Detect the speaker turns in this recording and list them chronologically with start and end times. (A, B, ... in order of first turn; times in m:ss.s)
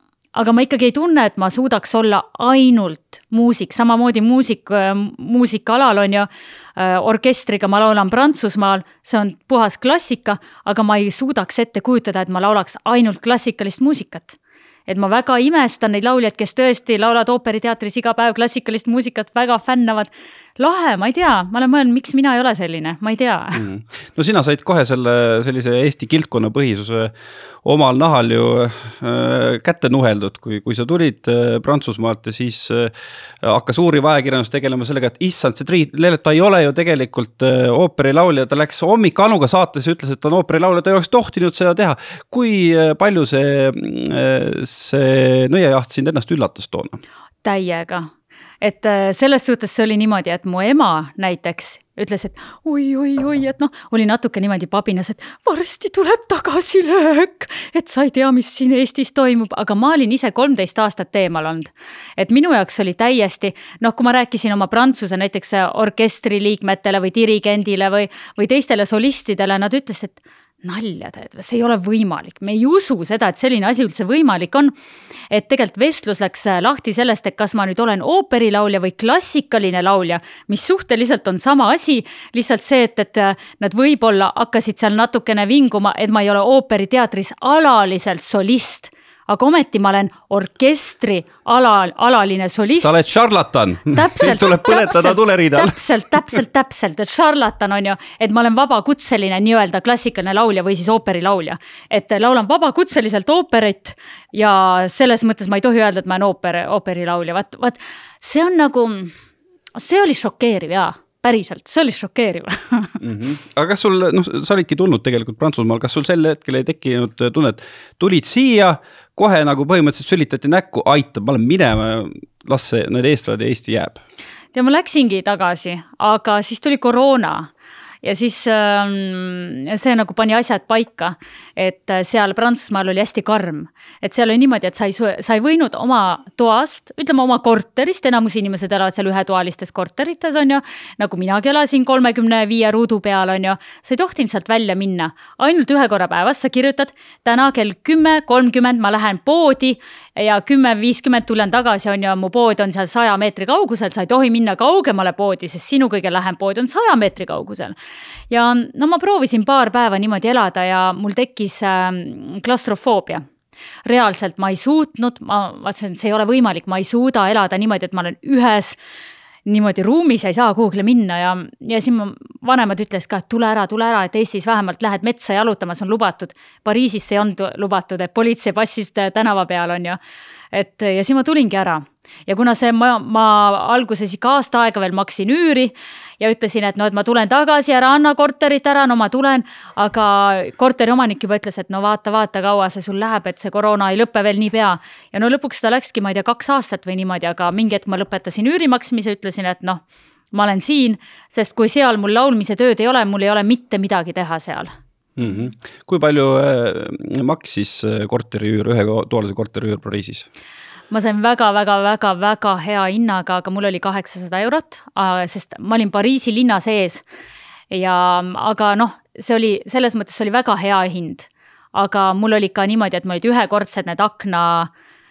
0:00.4-0:23.6 A
0:23.6-0:47.0 B
0:47.4-0:48.1 A
0:48.6-1:14.7 A
1:15.3-1:32.9 A
1:32.8-1:35.8 B
1:33.9-1:49.2 A
1:49.8-1:53.0 A
1:53.0-2:04.0 B
2:04.5-2:07.5 A
2:08.0-2:37.8 A
2:38.3-2:43.2 A
2:43.8-2:48.8 A
2:49.5-3:00.0 A
3:00.5-3:24.7 A
3:25.2-3:30.3 B
3:30.9-3:37.0 A
3:37.7-3:44.7 A